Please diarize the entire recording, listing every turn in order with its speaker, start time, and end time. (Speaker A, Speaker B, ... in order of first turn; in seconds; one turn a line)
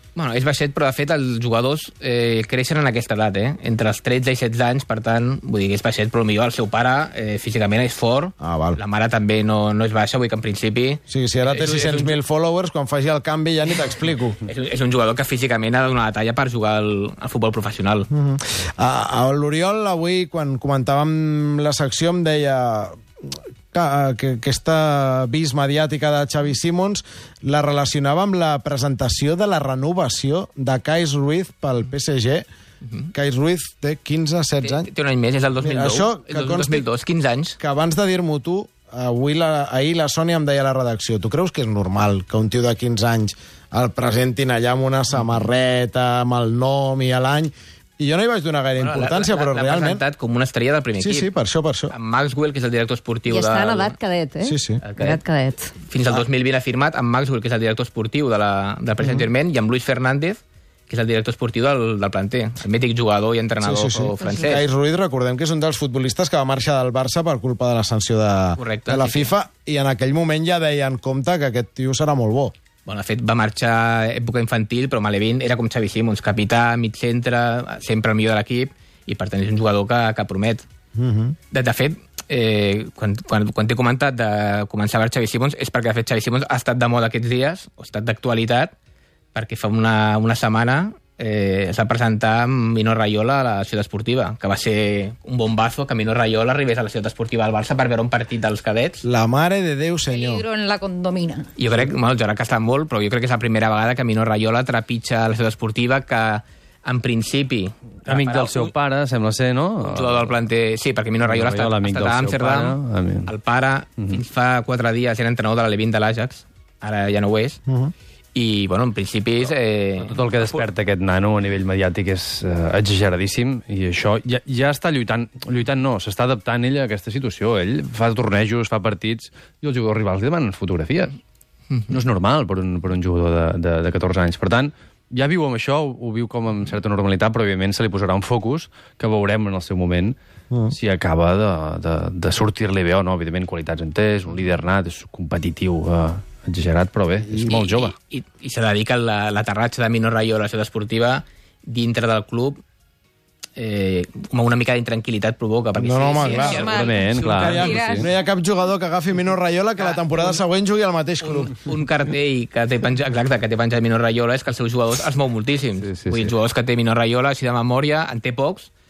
Speaker A: 0.1-12.2
Speaker B: 8.4-8.8
Speaker B: 11.1-14.4
Speaker A: 14.4-18.1
Speaker B: 18.1-23.0
Speaker B: 23.7-32.5
Speaker A: 32.8-33.1
Speaker B: 33.1-34.9
Speaker A: 34.6-37.6
Speaker B: 35.6-36.9
Speaker B: 37.6-50.0
Speaker A: 45.1-45.5
Speaker A: 48.8-51.3
Speaker B: 51.0-51.9
Speaker A: 51.9-54.0
Speaker C: 53.3-55.7
Speaker B: 54.4-54.8
Speaker A: 54.8-55.2
Speaker A: 55.8-64.6
Speaker B: 59.0-59.3
Speaker B: 63.6-72.5
Speaker A: 68.5-69.3
Speaker A: 72.8-80.6
Speaker B: 81.0-81.3
Speaker A: 81.5-88.7
Speaker A: 89.3-99.0
Speaker B: 99.0-100.4
Speaker D: 100.1-101.5
Speaker A: 101.6-108.7
Speaker E: 108.0-110.3
Speaker A: 109.8-117.6
Speaker E: 111.2-113.3
Speaker B: 117.7-117.9
Speaker A: 118.3-120.6
Speaker E: 120.0-131.2
Speaker E: 131.9-140.2
Speaker E: 140.7-147.9
Speaker B: 147.2-147.5
Speaker A: 147.4-152.6
Speaker A: 153.6-157.0
Speaker B: 155.7-161.5
Speaker D: 156.2-158.1
Speaker E: 156.6-158.1
Speaker A: 159.8-160.4
Speaker A: 161.2-168.7
Speaker E: 165.8-166.3